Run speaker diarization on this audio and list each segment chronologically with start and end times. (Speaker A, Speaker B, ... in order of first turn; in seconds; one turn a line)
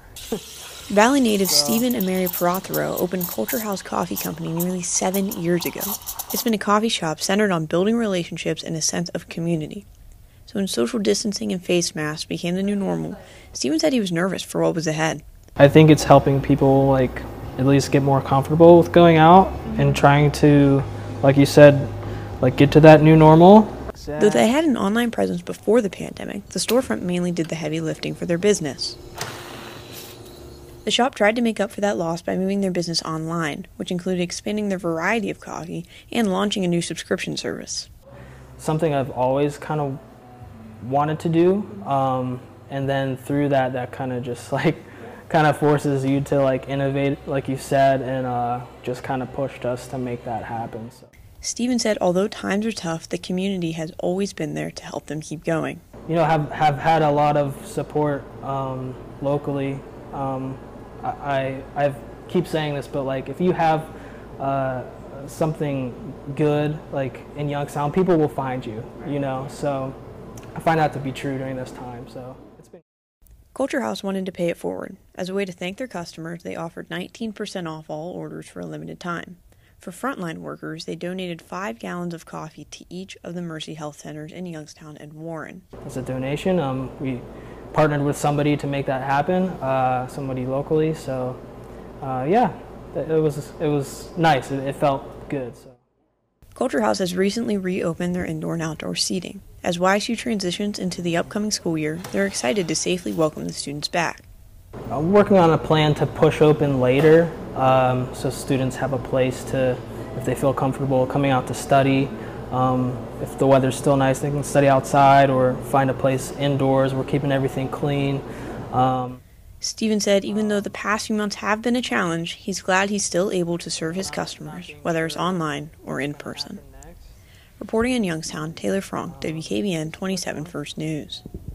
Speaker A: 0.9-9.9
Speaker B: 1.5-1.9
Speaker A: 10.5-15.2
Speaker B: 15.6-24.5
Speaker A: 24.2-29.0
Speaker A: 30.9-37.9
Speaker B: 38.6-40.0
Speaker B: 40.8-51.1
Speaker A: 51.4-55.8
Speaker B: 56.1-70.0
Speaker B: 70.5-72.8
Speaker A: 73.5-85.7
Speaker B: 85.8-91.4
Speaker B: 92.0-95.8
Speaker A: 96.6-104.3
Speaker B: 104.9-119.2
Speaker A: 119.6-126.6
Speaker B: 120.3-120.7
Speaker B: 123.8-127.2
Speaker A: 127.6-131.2
Speaker B: 129.0-130.6